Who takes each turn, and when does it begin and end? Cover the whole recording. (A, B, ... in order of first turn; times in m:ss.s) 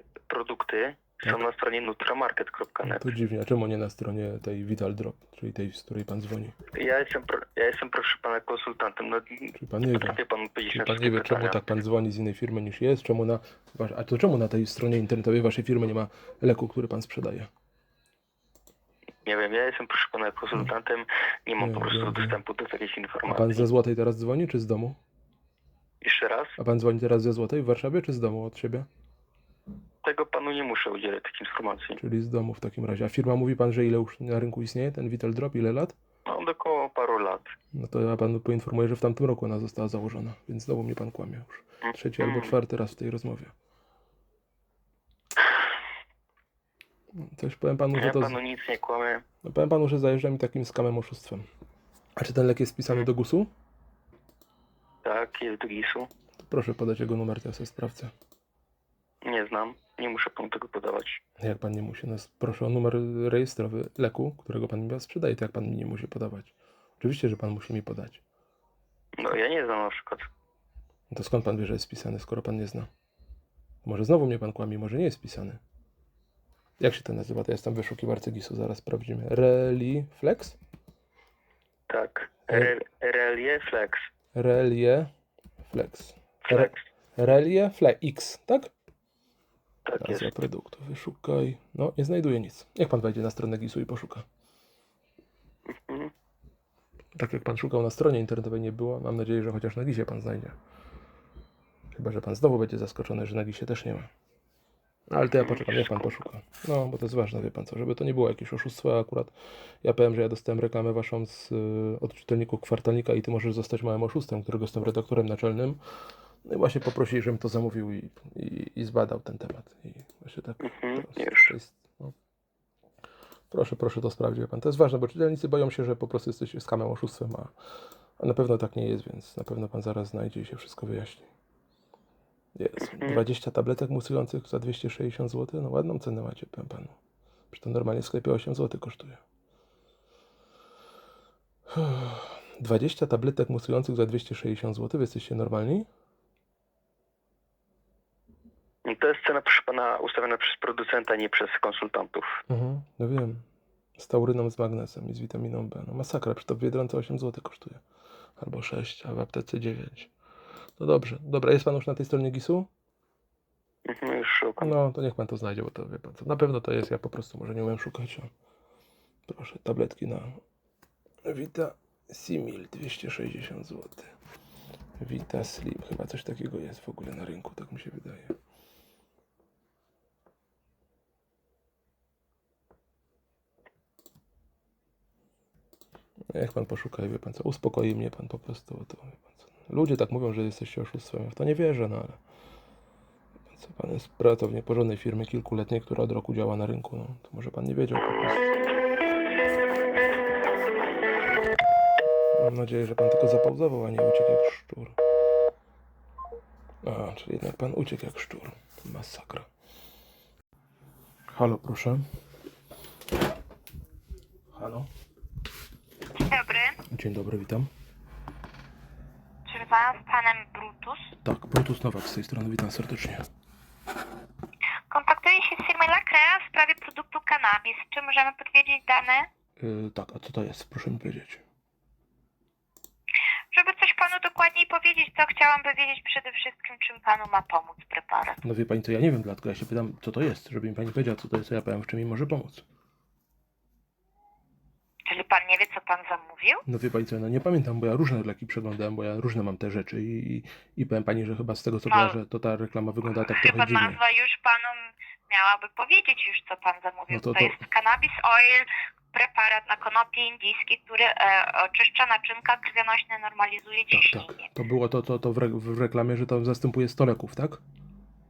0:00.3-0:03.1 A
0:02.8-0:06.5 B
0:06.7-0:11.6 A
0:09.5-0:10.2 B
0:10.7-0:17.5 B
0:19.2-0:23.7 A
0:21.6-0:22.4 B
0:23.2-0:25.0 B
0:26.0-0:26.6 A
0:26.6-0:28.8 B
0:30.0-0:32.0 A
0:32.0-0:35.9 B
0:36.2-0:37.5 A
0:37.7-0:43.5 B
0:41.8-0:42.5 A
0:47.2-0:48.4 B
0:47.9-0:49.2 A
0:49.4-0:51.4 B
0:52.2-0:53.5 B
0:55.0-0:56.1 A
0:56.4-0:58.1 B
0:59.2-1:01.2 A
1:01.4-1:08.2 B
1:09.2-1:10.2 A
1:11.1-1:12.9 B
1:13.8-1:15.6 B
1:16.8-1:20.6 B
1:21.9-1:24.0 A
1:24.3-1:25.1 B
1:25.6-1:28.7 B
1:26.5-1:26.8 A
1:29.8-1:30.3 A
1:30.0-1:34.2 B
1:35.7-1:36.1 A
1:37.2-1:40.6 B
1:41.9-1:44.1 B
1:45.1-1:55.8 B
1:45.3-1:46.2 A
1:56.4-2:02.1 B
2:00.6-2:01.5 A
2:03.5-2:07.5 B
2:08.2-2:11.3 B
2:12.6-2:17.0 B
2:12.8-2:13.2 A
2:17.5-2:19.2 B
2:21.7-2:25.9 B
2:28.8-2:32.3 A
2:32.5-2:33.4 B
2:34.0-2:37.8 B
2:38.4-2:40.1 B
2:40.8-2:42.7 B
2:43.9-2:44.7 A
2:44.6-2:48.3 B
2:49.3-2:50.4 B
2:51.2-2:54.1 B
2:55.0-2:58.4 B
3:06.3-3:12.2 B
3:13.5-3:18.5 B
3:22.3-3:25.0 B
3:26.8-3:29.5 B
3:31.3-3:32.0 B
3:34.5-3:34.9 B
3:36.2-3:36.8 C
3:36.9-3:37.7 B
3:39.5-3:41.1 C
3:41.2-3:43.2 B
3:44.9-3:49.3 C
3:49.6-3:51.4 B
3:53.5-3:58.4 C
3:58.4-4:02.6 B
4:05.0-4:06.6 C
4:06.7-4:14.0 B
4:11.9-4:12.2 C
4:13.2-4:24.5 C
4:17.1-4:17.6 B
4:23.9-4:27.6 B